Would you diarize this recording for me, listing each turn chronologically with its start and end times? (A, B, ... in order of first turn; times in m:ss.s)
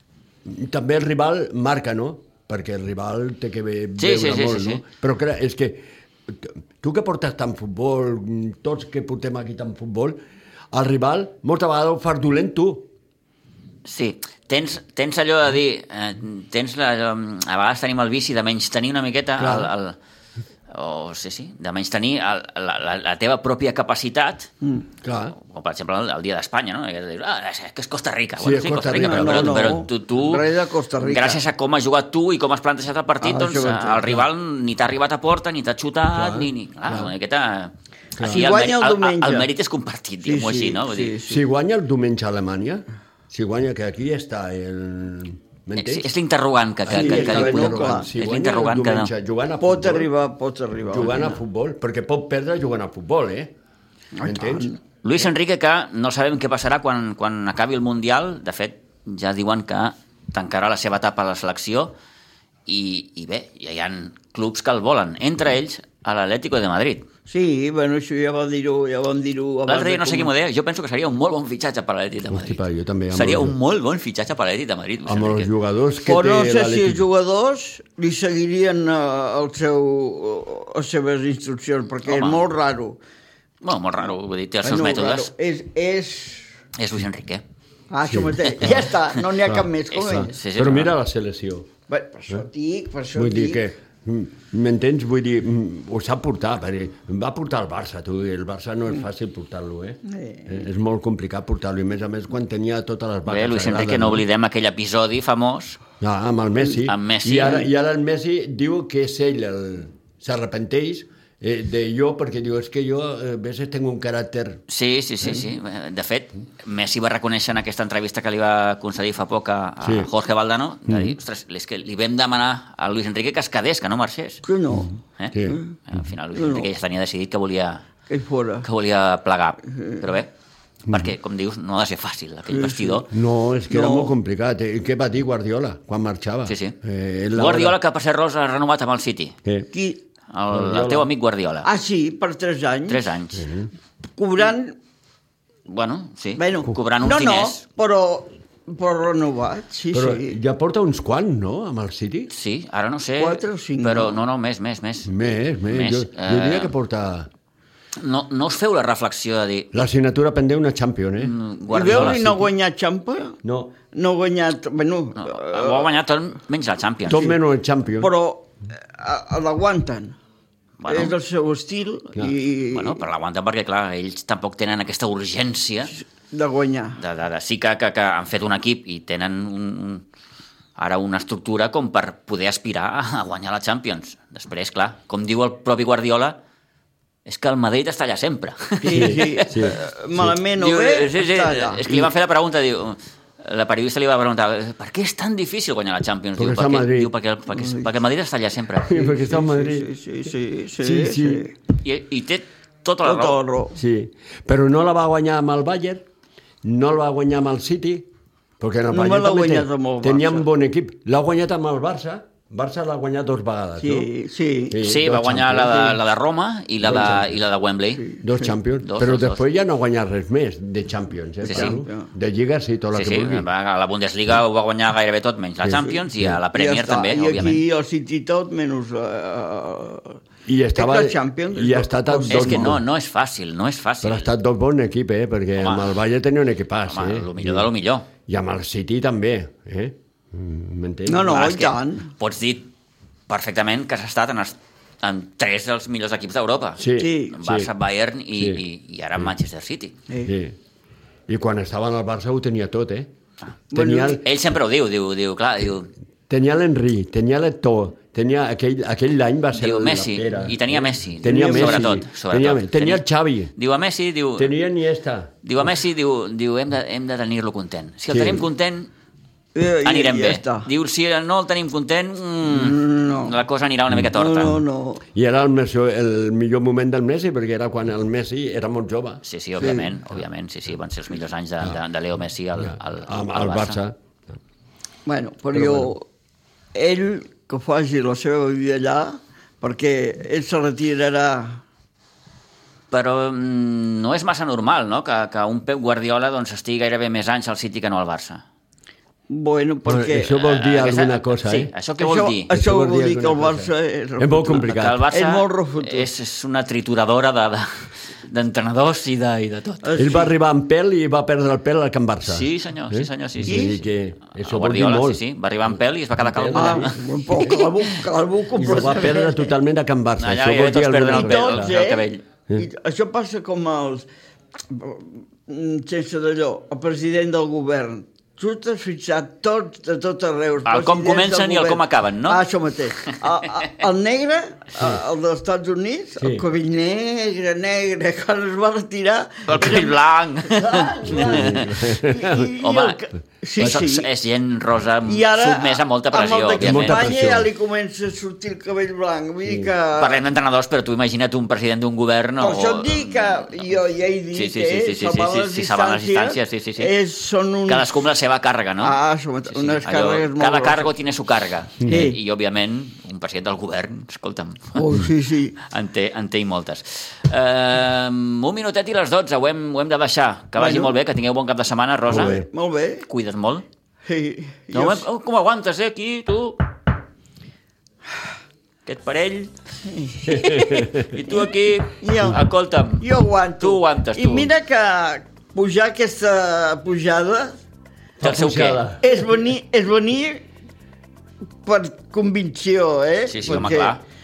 0:00.4-0:10.2 A
0:04.0-0:04.8 B
0:10.7-0:12.9 A
0:13.8-0:19.9 B
0:19.4-0:19.7 A
0:20.7-0:24.5 B
0:25.0-0:25.3 A
0:25.4-0:41.2 B
0:28.4-0:29.8 A
0:28.9-0:31.4 C
0:33.2-0:34.2 C
0:36.1-0:37.1 A
0:38.2-0:38.5 A
0:38.2-0:39.5 C
0:40.2-0:41.4 C
0:41.2-0:46.1 A
0:45.8-0:49.1 B
0:46.8-0:50.1 A
0:46.9-0:48.1 C
0:49.6-0:51.4 C
0:50.9-0:53.5 A
0:54.2-0:54.8 C
0:54.2-0:54.7 A
0:55.0-1:01.9 B
1:02.7-1:07.0 B
1:07.3-1:10.3 C
1:09.7-1:15.5 B
1:12.3-1:13.6 A
1:15.0-1:17.0 A
1:16.0-1:23.0 C
1:22.0-1:22.5 B
1:23.6-1:25.3 B
1:24.6-1:26.5 C
1:26.8-1:27.4 B
1:27.9-1:30.3 C
1:28.1-1:28.9 A
1:29.4-1:31.7 A
1:29.9-1:30.9 B
1:31.9-1:33.6 C
1:33.1-1:44.2 A
1:40.1-1:40.6 C
1:43.3-1:45.8 B
1:46.0-1:54.6 A
1:46.8-1:47.7 B
1:54.7-2:04.4 B
1:59.8-2:00.1 A
2:00.9-2:01.2 A
2:04.4-2:05.8 C
2:04.7-2:05.6 A
2:05.2-2:07.8 B
2:06.3-2:06.7 C
2:08.1-2:08.6 C
2:08.6-2:10.3 B
2:10.9-2:13.1 B
2:12.5-2:13.0 C
2:13.1-2:17.8 A
2:13.7-2:14.1 C
2:16.4-2:16.8 B
2:17.3-2:19.3 B
2:19.4-2:19.7 A
2:19.7-2:20.0 C
2:20.3-2:21.7 B
2:20.5-2:21.1 A
2:21.6-2:23.0 C
2:22.9-2:23.4 B
2:23.3-2:23.7 A
2:24.2-2:24.8 C
2:25.7-2:27.6 B
2:26.4-2:30.3 C
2:29.9-2:32.3 A
2:32.3-2:35.1 B
2:33.2-2:34.2 C
2:35.0-2:37.3 A
2:35.7-2:36.7 B
2:38.0-2:39.8 B
2:39.7-2:42.5 A
2:41.2-2:42.2 B
2:41.7-2:43.4 C
2:43.4-2:43.7 A
2:43.9-2:45.9 C
2:45.2-2:47.3 B
2:47.0-2:48.1 A
2:48.0-2:50.2 C
2:50.8-2:51.2 B
2:50.9-2:53.0 C
2:52.7-2:55.9 B
2:56.3-2:57.0 C
2:57.0-3:00.0 B
3:00.8-3:06.4 B
3:07.2-3:09.6 B
3:08.8-3:11.8 C
3:08.9-3:10.4 A
3:10.6-3:19.0 B
3:11.9-3:12.1 A
3:16.4-3:17.1 A
3:17.5-3:17.9 C
3:18.9-3:19.9 A
3:18.9-3:21.5 C
3:20.8-3:21.5 A
3:21.8-3:23.4 B
3:23.0-3:23.8 C
3:23.8-3:26.0 A
3:26.6-3:28.1 A
3:28.6-3:34.1 A
3:28.9-3:30.5 C
3:33.8-3:34.8 C
3:34.7-3:36.0 A
3:34.8-3:38.1 B
3:36.8-3:37.4 A
3:38.1-3:38.4 C
3:38.2-3:43.5 A
3:38.8-3:39.4 B
3:41.4-3:42.1 C
3:41.5-3:41.8 B
3:42.9-3:47.6 B
3:45.6-3:46.4 A
3:46.5-3:50.2 C
3:50.5-3:52.8 A
3:50.8-3:52.7 C
3:52.3-3:54.3 B
3:54.0-3:57.7 A
3:55.6-3:56.0 B
3:56.8-3:58.1 B
3:58.3-4:01.4 A
4:01.1-4:02.1 C
4:01.2-4:02.7 B
4:03.3-4:10.0 B
4:06.8-4:07.7 A
4:07.0-4:07.4 C
4:08.3-4:08.6 A
4:10.2-4:10.6 A
4:11.3-4:13.1 A
4:13.7-4:14.2 C
4:13.7-4:14.2 A
4:14.0-4:15.9 B
4:16.3-4:23.5 A
4:19.5-4:23.0 B
4:21.2-4:22.0 C
4:23.6-4:24.5 B
4:24.4-4:25.4 A
4:25.4-4:28.9 B
4:28.1-4:28.5 A
4:29.5-4:30.7 C
4:29.8-4:34.6 B
4:32.4-4:33.3 C
4:34.1-4:35.0 C
4:35.1-4:39.2 A
4:39.2-4:43.8 B
4:39.6-4:40.0 C
4:42.6-4:44.0 A
4:45.0-4:46.0 C
4:45.5-4:45.9 A
4:46.7-4:51.6 C
4:52.9-4:58.4 B
4:59.3-5:00.4 C
4:59.8-5:01.7 A
5:00.3-5:02.5 B
5:02.0-5:06.1 C
5:02.5-5:05.0 A
5:04.5-5:10.1 B
5:09.8-5:10.3 C
5:10.0-5:17.0 A
5:12.2-5:13.8 B
5:13.5-5:13.8 C
5:14.3-5:18.0 B
5:16.5-5:19.5 C
5:18.5-5:21.8 A
5:20.2-5:22.2 B
5:21.1-5:24.1 C
5:24.7-5:44.1 C
5:30.6-5:32.5 B
5:36.2-5:36.4 A
5:39.5-5:41.9 B
5:41.1-5:42.5 A
5:42.6-5:43.1 B
5:43.6-5:47.2 B
5:45.0-5:50.2 C
5:46.6-5:47.5 A
5:49.5-5:49.7 A
5:50.0-5:57.0 B
5:52.4-5:58.0 C
5:57.7-6:05.0 B
5:58.8-6:00.9 C
6:01.8-6:02.2 C
6:04.8-6:05.6 C
6:05.6-6:12.4 B
6:10.6-6:11.0 C
6:12.1-6:12.5 A
6:12.1-6:13.1 C
6:13.0-6:13.6 B
6:14.0-6:15.0 C
6:14.7-6:16.6 B
6:18.8-6:19.5 B
6:19.8-6:20.6 C
6:20.3-6:21.0 A
6:20.3-6:24.5 B
6:22.0-6:22.4 C
6:23.0-6:27.6 C
6:28.2-6:29.1 A
6:28.2-6:28.8 B
6:29.0-6:30.4 C
6:31.6-6:34.0 C
6:33.2-6:34.0 B